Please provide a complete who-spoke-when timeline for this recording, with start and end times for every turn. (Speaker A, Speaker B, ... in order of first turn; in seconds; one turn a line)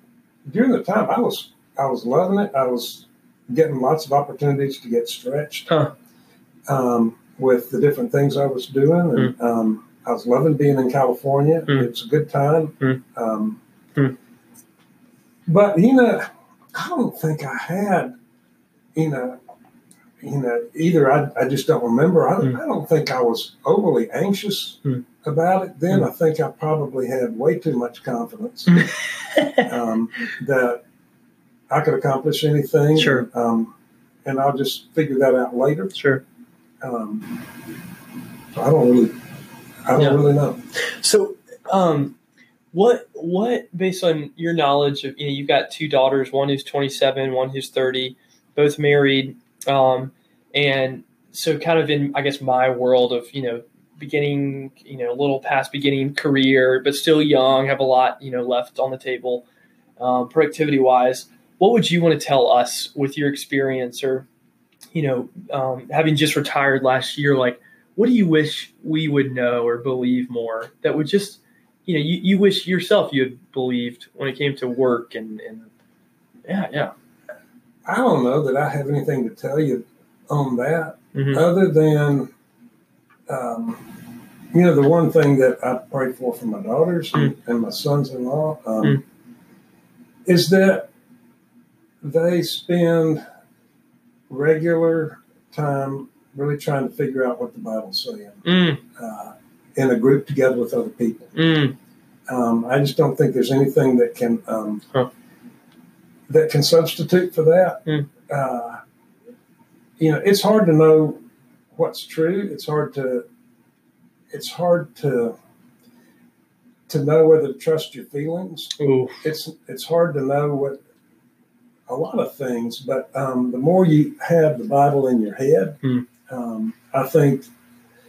Speaker A: 0.4-5.7
Speaker B: 5.7-5.9
Speaker A: 6.7-13.6
Speaker A: 15.4-18.1
Speaker A: 18.9-19.4
Speaker A: 20.2-28.8
Speaker B: 28.7-29.7
Speaker A: 29.6-30.8
Speaker A: 31.7-33.7
Speaker B: 32.9-33.2
Speaker A: 34.2-35.9
Speaker B: 35.9-36.2
Speaker A: 36.8-37.5
Speaker A: 38.5-39.2
Speaker A: 39.9-40.6
Speaker B: 40.0-40.2
Speaker B: 40.9-42.2
Speaker B: 42.7-59.5
Speaker B: 60.0-64.2
Speaker B: 64.9-75.7
Speaker B: 76.5-76.9
Speaker A: 77.8-82.3
Speaker B: 81.1-81.4
Speaker A: 83.3-83.9
Speaker A: 84.5-89.0
Speaker A: 90.2-90.9
Speaker A: 92.0-93.2
Speaker A: 94.3-101.3
Speaker B: 98.4-98.8
Speaker B: 101.3-101.8
Speaker A: 102.3-104.8
Speaker A: 106.3-108.8
Speaker A: 110.0-111.2
Speaker A: 111.7-113.2
Speaker A: 114.3-115.3
Speaker A: 116.9-120.8
Speaker B: 118.8-119.2
Speaker A: 121.9-127.5